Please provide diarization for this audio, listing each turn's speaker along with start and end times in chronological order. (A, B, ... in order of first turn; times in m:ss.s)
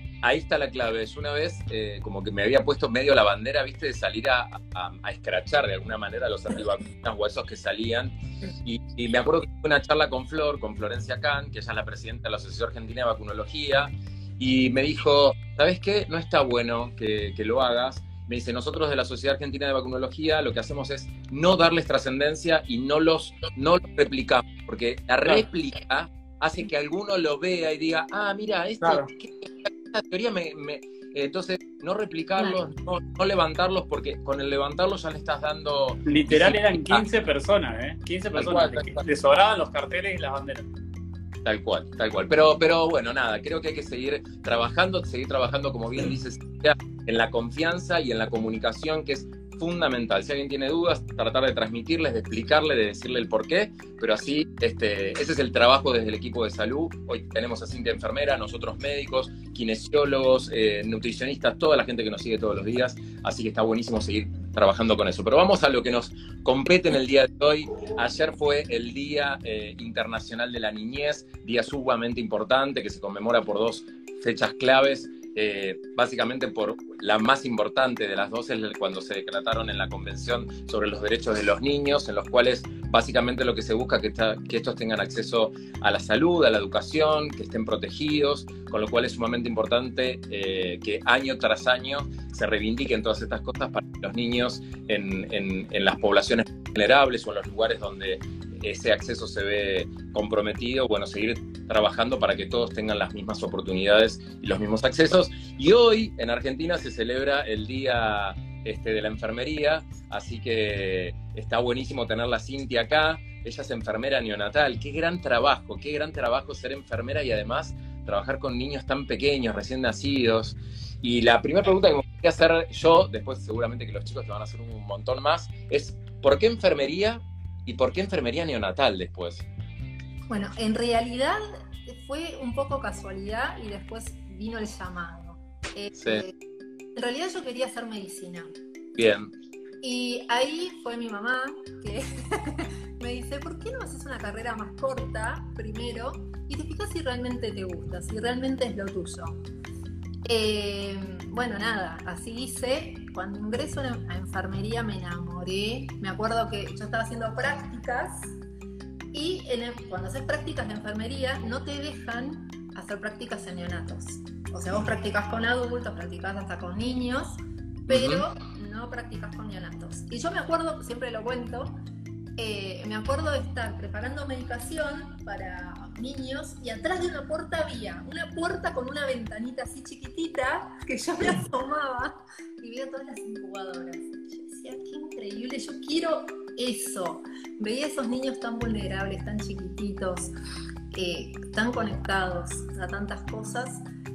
0:00.2-0:37.1 A
0:28.8-0:29.1 B
0:36.1-0:40.7 B
0:38.4-0:39.0 A
0:41.4-2:09.5 A
2:10.3-2:16.3 C
2:16.0-2:16.2 A
2:17.0-2:18.5 C
2:19.0-2:19.3 A
2:19.8-2:29.4 C
2:30.2-2:38.4 C
2:39.1-2:51.8 C
2:47.9-2:48.2 A
2:52.4-3:10.3 C
3:10.9-3:13.8 C